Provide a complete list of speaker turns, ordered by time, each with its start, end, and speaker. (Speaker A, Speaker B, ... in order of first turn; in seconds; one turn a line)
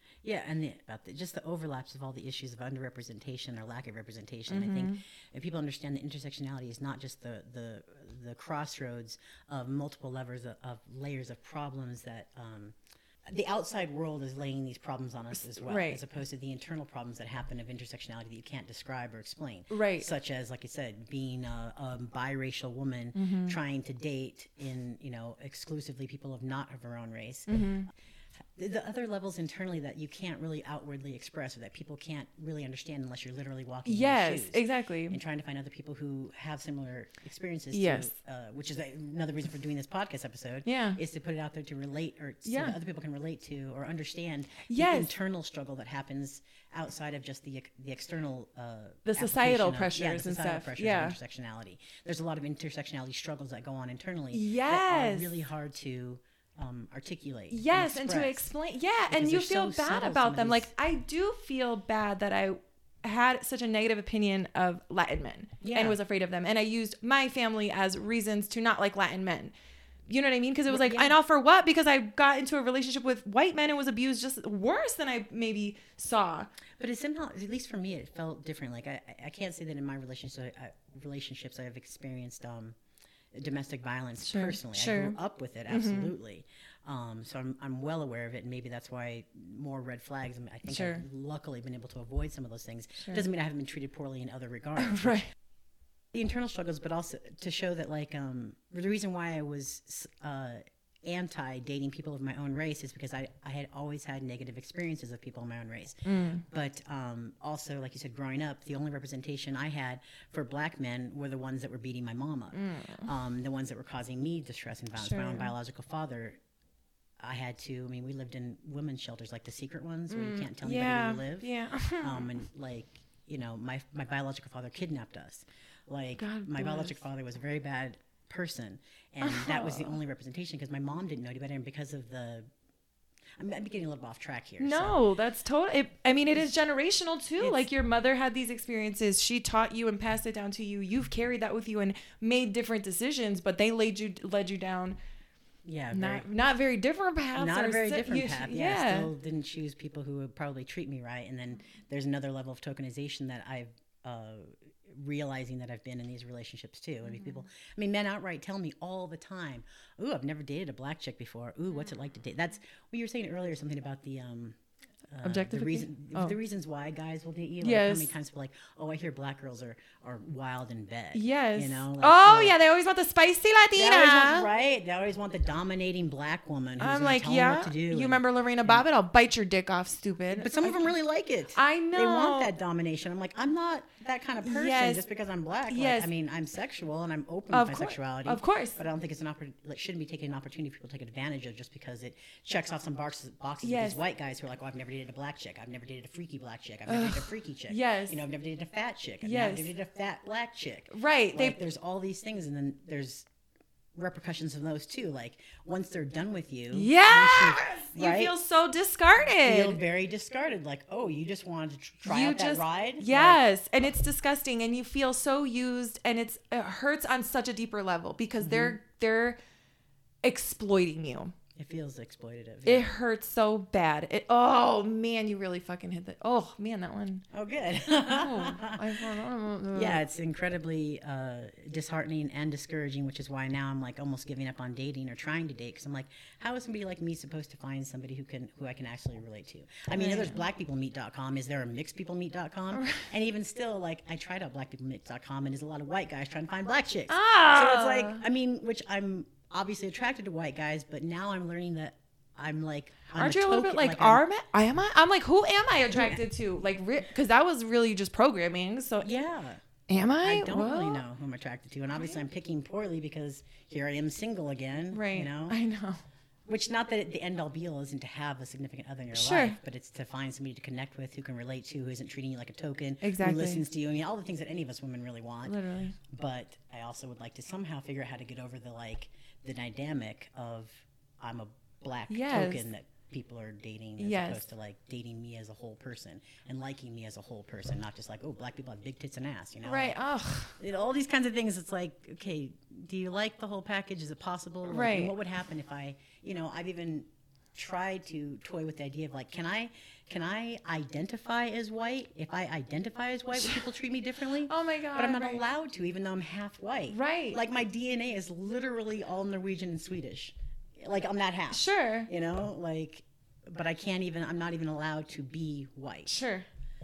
Speaker A: 0.2-27.5
Speaker B: 4.5-5.0
Speaker B: 15.7-16.0
Speaker B: 19.7-20.1
Speaker B: 23.1-23.6
Speaker B: 27.5-27.9
Speaker A: 28.5-58.4
Speaker B: 33.8-35.2
Speaker B: 37.7-38.1
Speaker B: 40.6-41.0
Speaker B: 42.4-42.8
Speaker B: 44.6-45.1
Speaker B: 49.0-51.2
Speaker B: 54.3-55.4
Speaker B: 57.5-69.5
Speaker A: 59.1-60.7
Speaker A: 65.6-66.0
Speaker B: 70.1-76.5
Speaker A: 70.7-71.2
Speaker A: 76.8-82.8
Speaker A: 83.3-95.2
Speaker B: 84.2-85.2
Speaker B: 85.7-86.1
Speaker B: 90.7-91.0
Speaker B: 94.8-95.3
Speaker A: 96.1-116.4
Speaker B: 106.0-106.4
Speaker B: 112.5-113.1
Speaker B: 115.0-115.5
Speaker A: 117.2-132.5
Speaker B: 120.1-122.3
Speaker B: 126.2-127.0
Speaker B: 129.2-130.0
Speaker A: 133.4-135.0
Speaker B: 134.6-145.0
Speaker A: 137.4-137.7
Speaker A: 145.6-146.2
Speaker B: 145.9-149.1
Speaker A: 147.3-164.6
Speaker A: 165.1-172.6
Speaker B: 165.2-166.4
Speaker B: 167.6-168.1
Speaker B: 171.1-174.5
Speaker A: 173.8-178.8
Speaker B: 176.8-180.9
Speaker A: 180.3-203.3
Speaker B: 181.5-182.5
Speaker B: 184.4-185.0
Speaker B: 185.7-186.1
Speaker B: 187.5-188.8
Speaker B: 193.6-194.0
Speaker B: 196.8-198.2
Speaker B: 199.2-199.7
Speaker B: 200.9-201.6
Speaker A: 203.9-208.3
Speaker B: 206.7-209.8
Speaker A: 209.4-213.4
Speaker B: 212.1-219.4
Speaker A: 218.4-218.8
Speaker B: 220.2-221.3
Speaker A: 221.5-222.9
Speaker B: 222.6-227.2
Speaker A: 227.3-229.0
Speaker B: 228.1-230.0
Speaker A: 229.7-254.2
Speaker B: 239.9-240.4
Speaker B: 242.7-243.1
Speaker B: 247.1-248.2
Speaker B: 253.2-259.1
Speaker A: 255.9-256.2
Speaker A: 259.0-259.6
Speaker B: 259.9-261.0
Speaker A: 260.2-265.6
Speaker B: 264.9-266.0
Speaker A: 266.5-289.9
Speaker B: 269.1-269.6
Speaker B: 273.0-273.6
Speaker B: 275.4-276.0
Speaker B: 282.1-282.7
Speaker B: 284.0-284.4
Speaker B: 289.6-290.6
Speaker A: 290.6-316.2
Speaker B: 294.7-295.1
Speaker B: 304.5-305.4
Speaker B: 306.9-307.4
Speaker B: 311.5-312.1
Speaker B: 316.1-316.4